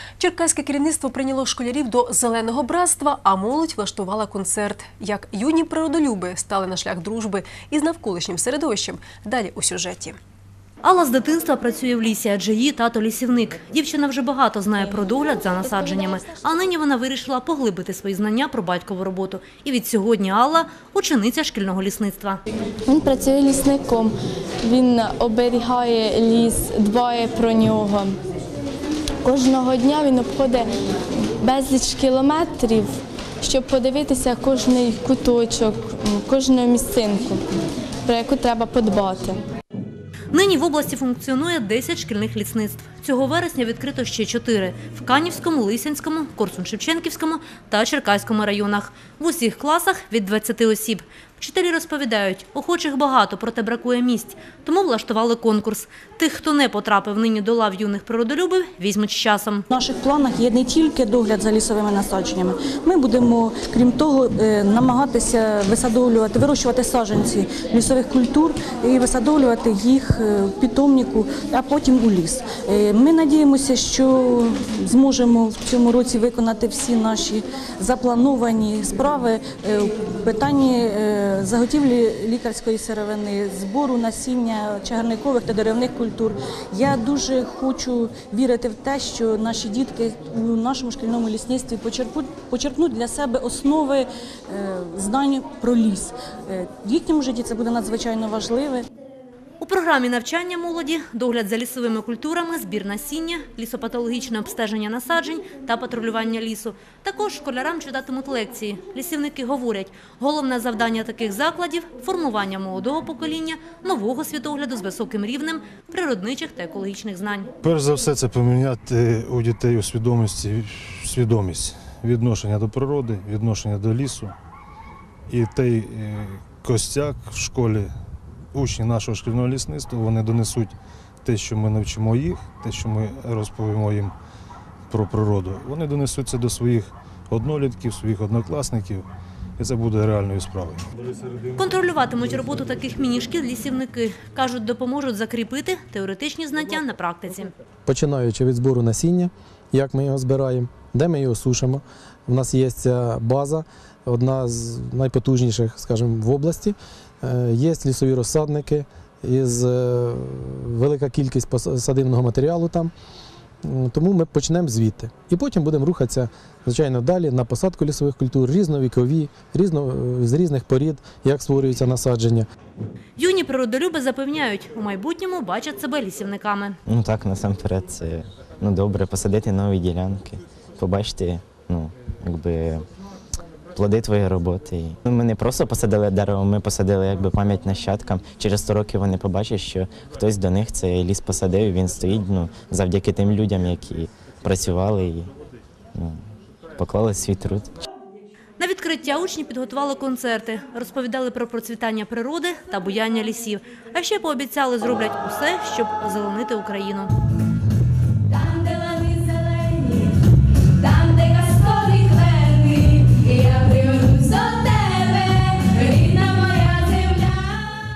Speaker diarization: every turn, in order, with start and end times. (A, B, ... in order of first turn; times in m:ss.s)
0:00.2-0:10.2 A
0:10.8-0:22.4 B
0:22.9-0:28.2 C
0:29.2-0:30.7 C
0:31.4-0:37.4 C
0:38.0-0:39.4 C
0:40.3-0:59.6 B
0:59.7-1:38.8 D
1:39.6-1:57.5 B
1:57.6-2:04.3 E
2:05.3-2:07.9 E
2:08.5-2:14.1 E
2:14.9-2:19.1 E
2:19.6-2:21.6 E
2:21.6-2:27.5 B
2:27.8-2:42.9 F
2:43.6-2:52.4 F
2:53.2-2:56.8 B
2:56.9-2:58.2 G
2:59.0-3:02.8 G
3:03.7-3:15.3 G
3:16.8-3:17.8 G
3:18.6-3:27.1 B
3:28.4-3:30.2 C
3:30.8-3:37.7 C